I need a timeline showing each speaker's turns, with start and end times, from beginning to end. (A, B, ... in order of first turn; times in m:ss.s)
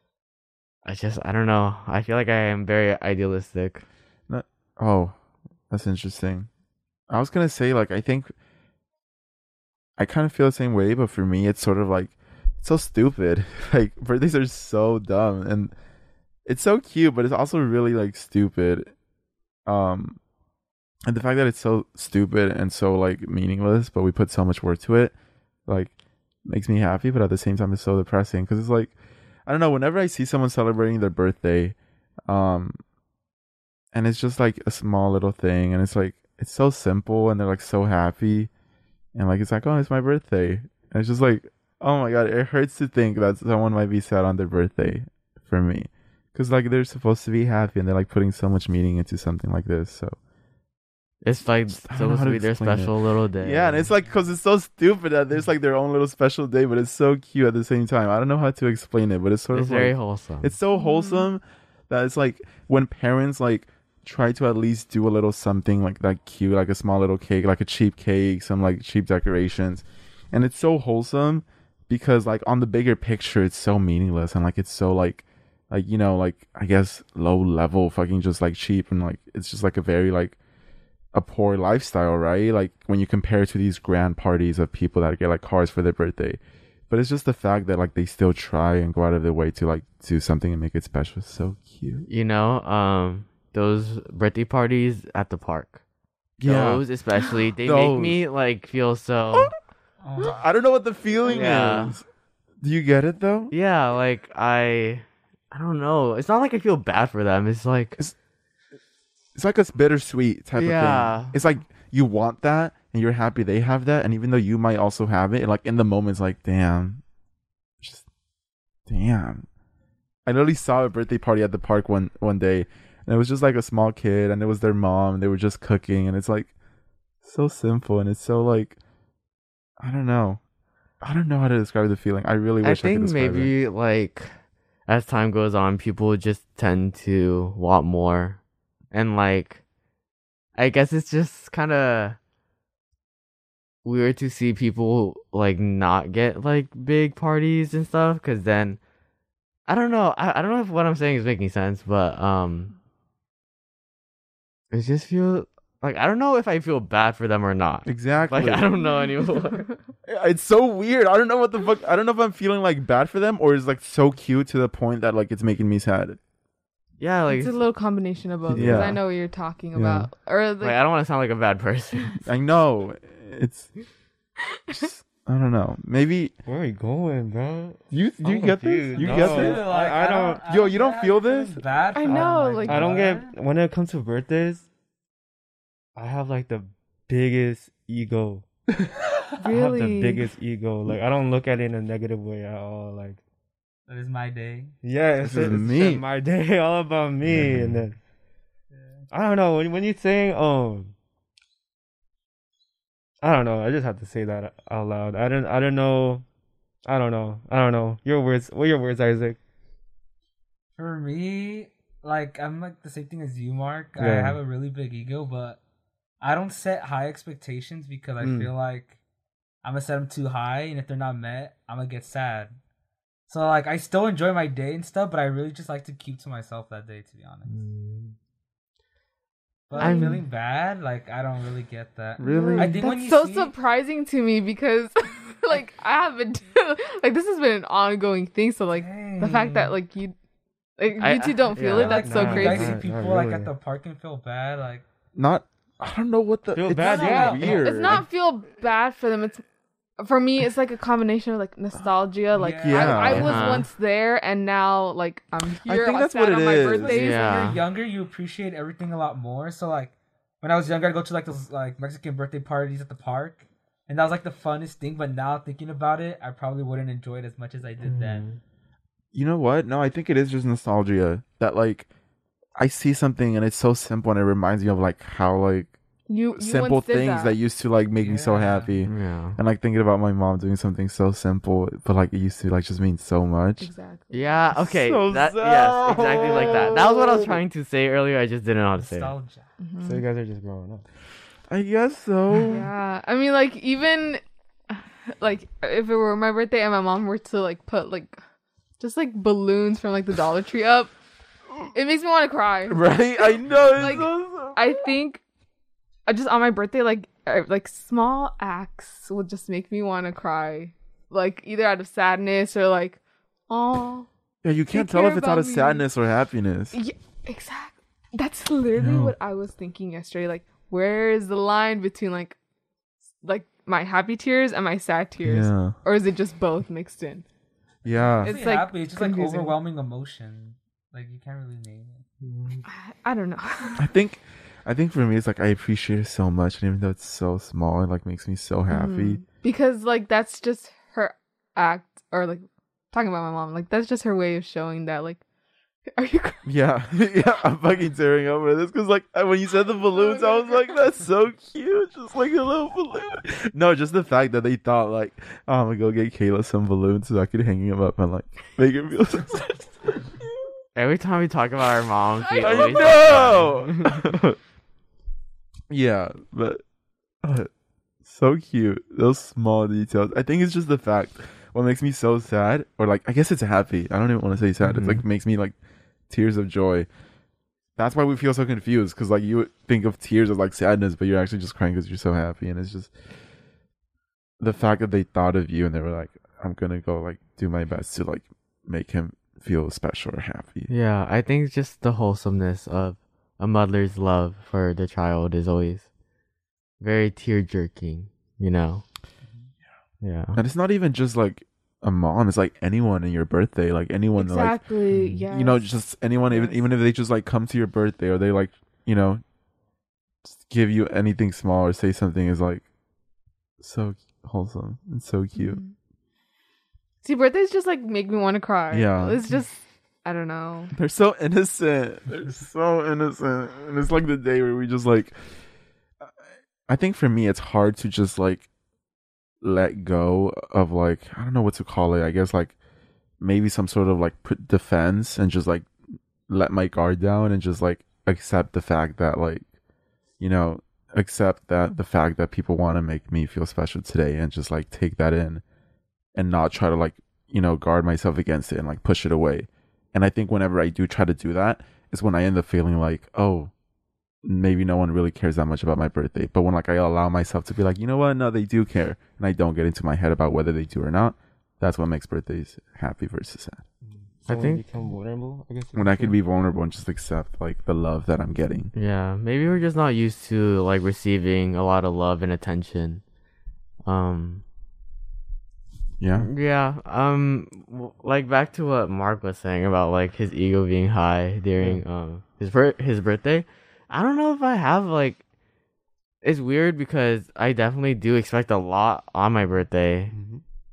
0:00.8-0:03.8 A
0:04.3-0:05.2 B
0:05.7-0:06.5 B
0:07.1-0:08.3 B
0:10.0-0:15.7 B
0:16.5-0:18.9 B
0:19.7-0:20.2 B
0:21.1-0:25.1 B
0:25.7-0:25.9 B
0:26.5-0:29.0 B
0:29.5-0:31.8 B
0:32.3-0:32.8 B
0:33.9-0:38.5 B
0:39.1-0:50.2 B
0:51.2-0:53.9 A
0:51.7-1:20.4 B
0:59.5-1:00.5 A
1:00.7-1:01.3 C
1:21.1-1:32.1 B
1:32.1-1:35.8 A
1:36.4-1:36.8 B
1:36.4-1:39.5 A
1:37.6-1:38.2 B
1:40.0-1:40.4 D
1:40.2-1:42.0 B
1:41.2-1:42.0 A
1:42.6-1:43.5 B
1:43.5-1:48.0 A
1:49.4-1:57.0 B
1:50.6-1:51.4 A
1:58.9-1:59.5 B
2:00.2-2:06.5 B
2:07.2-2:08.8 B
2:09.8-2:10.4 B
2:11.0-2:13.5 B
2:12.6-2:14.3 A
2:14.9-2:18.4 A
2:18.9-2:19.6 A
2:20.6-2:22.2 A
2:23.8-2:28.8 A
2:29.7-2:32.7 A
2:34.7-2:39.7 A
2:37.9-2:38.7 B
2:40.1-2:46.2 B
2:47.0-2:47.6 A
2:47.3-2:50.8 C
2:48.5-2:48.9 E
2:48.5-2:49.0 B
2:49.8-2:50.1 B
2:50.6-2:52.2 A
2:52.2-2:53.7 B
2:54.7-2:56.3 B
2:56.5-3:00.4 E
2:57.9-2:59.7 B
2:58.9-3:03.3 D
3:00.4-3:01.6 B
3:02.0-3:02.9 C
3:02.1-3:04.6 E
3:06.0-3:08.5 E
3:09.4-3:10.3 C
3:09.4-3:13.2 E
3:13.9-3:14.8 D
3:14.8-3:18.0 E
3:15.2-3:16.0 B
3:17.3-3:17.7 B
3:18.7-3:19.0 D
3:19.1-3:20.9 E
3:23.2-3:26.2 E
3:26.9-3:29.4 E
3:30.8-3:35.6 D
3:34.0-3:34.4 E
3:36.2-3:39.0 D
3:38.2-3:38.5 E
3:39.6-3:42.6 D
3:43.3-3:47.6 D
3:47.5-3:48.1 A
3:49.7-3:53.5 D
3:49.8-3:50.2 C
3:49.8-3:50.1 A
3:52.2-3:52.9 B
3:52.2-4:00.1 C
3:58.8-3:59.8 D
4:00.8-4:02.8 C
4:01.0-4:02.0 A
4:01.6-4:04.8 D
4:01.8-4:03.5 E
4:05.1-4:08.0 B
4:06.5-4:07.7 E
4:06.8-4:07.6 D
4:07.4-4:09.4 C
4:10.0-4:17.6 C
4:12.3-4:13.4 D
4:12.6-4:13.5 B
4:13.0-4:13.7 A
4:15.6-4:17.0 B
4:16.8-4:28.2 D
4:16.9-4:17.6 A
4:27.8-4:28.4 E
4:29.1-4:31.9 B
4:32.6-4:35.7 B
4:36.1-4:37.4 C
4:36.4-4:43.7 B
4:38.0-4:38.7 D
4:38.9-4:39.4 A
4:43.6-4:44.4 C
4:44.1-4:49.1 A
4:44.6-4:47.4 B
4:48.8-4:49.5 D
4:49.6-4:50.0 C
4:49.8-4:50.8 E
4:51.5-4:52.7 B
4:52.5-4:58.2 C
4:58.8-5:00.9 C
5:01.7-5:05.2 C
5:02.7-5:04.9 B
5:06.1-5:14.1 C
5:14.4-5:16.8 B
5:14.7-5:15.8 C
5:16.7-5:22.4 C
5:18.8-5:19.1 B
5:23.2-5:27.2 C
5:25.2-5:25.8 B
5:27.8-5:28.4 B
5:27.9-5:32.0 D
5:28.2-5:29.6 C
5:32.3-5:32.6 E
5:32.6-5:33.9 C
5:33.8-5:39.2 B
5:38.7-5:45.2 C
5:45.9-5:46.4 C
5:46.4-6:00.0 B
5:50.0-5:50.4 C
6:00.8-6:04.1 A
6:02.4-6:04.4 B
6:05.7-6:06.6 B
6:07.2-6:07.5 B
6:08.0-6:15.6 B
6:16.1-6:16.9 B
6:17.8-6:22.9 B
6:24.4-6:30.7 B
6:30.7-6:35.9 A
6:36.8-6:38.8 A
6:40.0-6:40.4 A
6:40.4-6:44.6 B
6:44.2-6:45.7 C
6:45.3-6:49.2 B
6:50.2-6:52.6 B
6:53.6-6:55.6 B
6:55.4-6:55.7 C
6:57.0-7:00.7 C
6:58.7-6:59.2 B
7:00.7-7:05.2 B
7:06.7-7:08.5 B
7:09.4-7:12.6 B
7:13.2-7:15.7 B
7:16.3-7:19.4 B
7:20.2-7:25.4 B
7:26.1-7:33.5 B
7:34.2-7:43.6 B
7:43.9-7:46.2 E
7:44.3-7:44.6 A
7:45.8-7:48.7 B
7:48.7-7:53.0 A
7:53.8-7:54.4 A
7:56.0-7:56.3 B
7:56.2-8:05.2 A
8:06.2-8:10.1 A
8:10.1-8:10.4 E